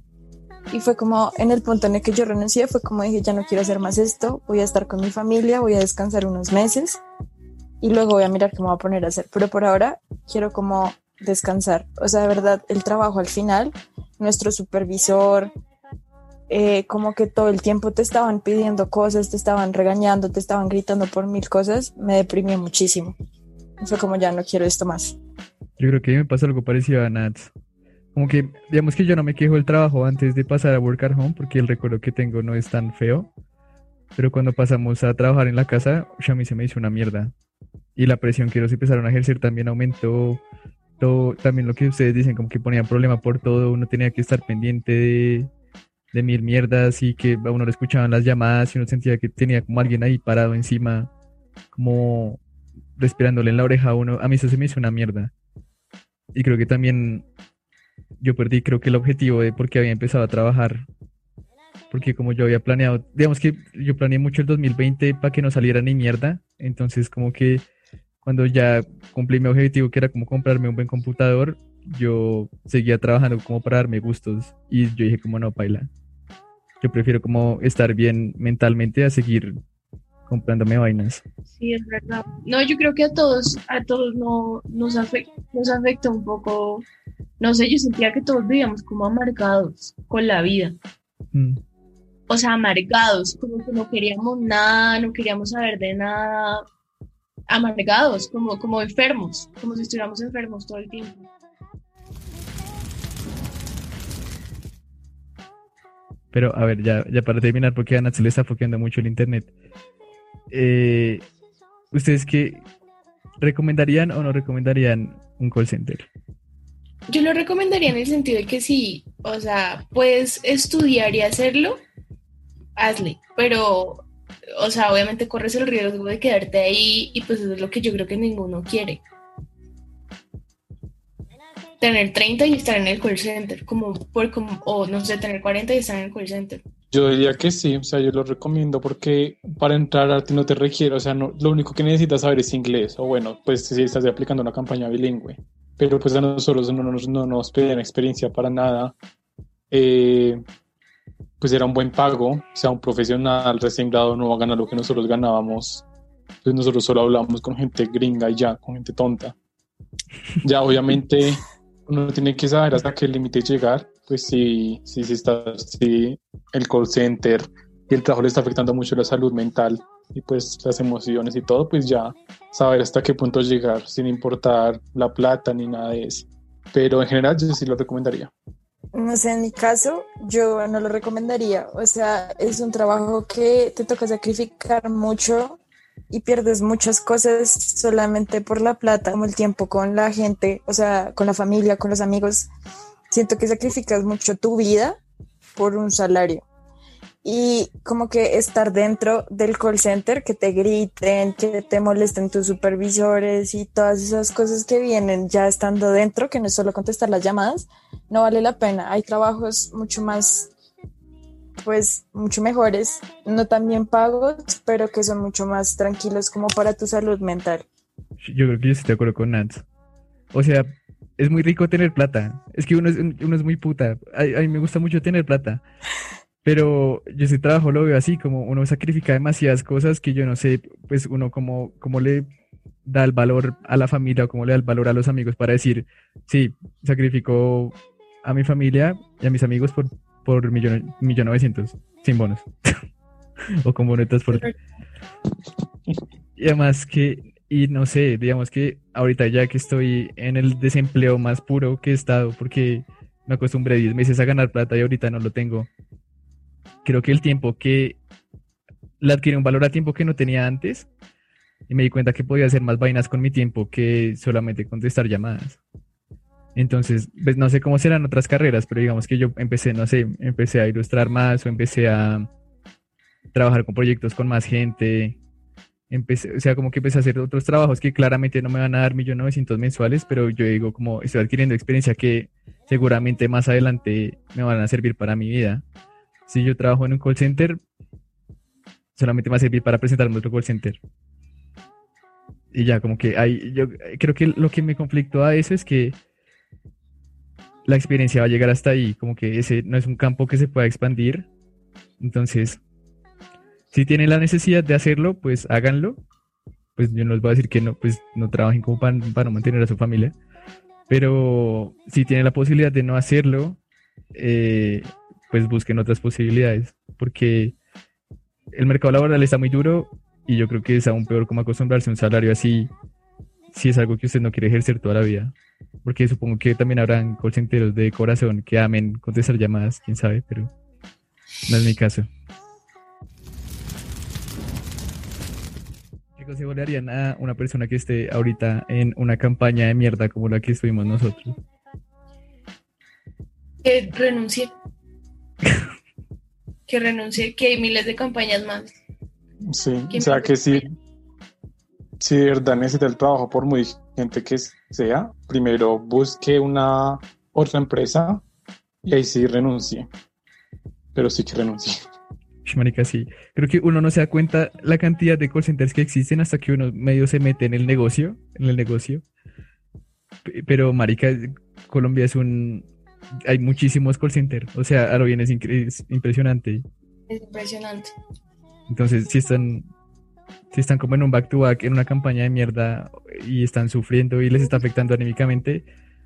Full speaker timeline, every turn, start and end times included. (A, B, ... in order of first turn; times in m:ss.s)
0:00.7-0:07.0 A
0:07.8-0:15.5 A
0:16.5-0:23.1 A
0:23.8-0:25.2 A
0:25.8-0:27.5 B
0:28.1-0:33.3 B
0:34.2-0:37.3 B
0:38.0-0:40.4 B
0:41.0-0:45.5 B
0:46.1-0:51.1 B
0:51.7-0:52.4 B
0:53.0-0:55.3 B
0:56.4-0:57.2 B
0:58.2-1:00.9 B
1:01.9-1:07.6 B
1:08.2-1:15.9 B
1:16.8-1:19.6 B
1:20.3-1:21.2 B
1:21.6-1:26.9 C
1:27.4-1:30.8 C
1:31.3-1:31.6 B
1:32.3-1:36.6 C
1:37.5-1:41.3 C
1:46.3-1:49.5 B
1:50.5-1:51.2 B
1:51.9-1:52.6 B
1:53.4-1:56.1 B
1:57.1-2:01.8 C
2:02.8-2:04.0 C
2:04.6-2:09.0 C
2:11.8-2:16.6 C
2:16.9-2:29.0 D
2:29.7-2:30.4 D
2:31.4-2:35.8 D
2:36.4-2:39.3 D
2:40.4-2:58.3 D
2:58.9-3:05.6 A
3:06.1-3:12.5 A
3:13.1-3:15.0 A
3:15.6-3:16.4 A
3:17.2-3:30.5 A
3:31.6-3:37.6 A
3:38.2-3:39.6 B
3:40.3-3:45.6 B
3:46.4-3:52.3 B
3:52.9-4:02.5 B
4:03.6-4:04.5 B
4:06.4-4:15.7 B
4:16.8-4:18.0 B
4:19.0-4:20.9 B
4:21.7-4:25.6 B
4:26.6-4:32.3 B
4:33.3-4:35.2 B
4:35.9-4:45.6 B
4:46.3-4:47.6 B
4:48.9-4:50.8 B
4:52.5-4:56.0 B
4:57.6-5:01.3 B
5:02.0-5:02.6 B
5:03.7-5:06.0 B
5:06.8-5:10.1 B
5:10.9-5:13.6 B
5:14.1-5:17.6 B
5:18.5-5:22.7 B
5:23.5-5:30.5 B
5:31.5-5:32.1 B
5:36.2-5:41.4 B
5:43.6-5:44.5 C
5:46.7-5:48.8 C
5:49.5-5:50.7 D
5:49.9-5:50.6 C
5:52.0-5:58.2 D
5:58.8-5:59.9 D
6:00.9-6:01.8 D
6:02.4-6:09.0 B
6:10.2-6:12.7 B
6:13.2-6:16.6 B
6:17.1-6:17.9 C
6:18.7-6:19.7 B
6:20.5-6:25.6 B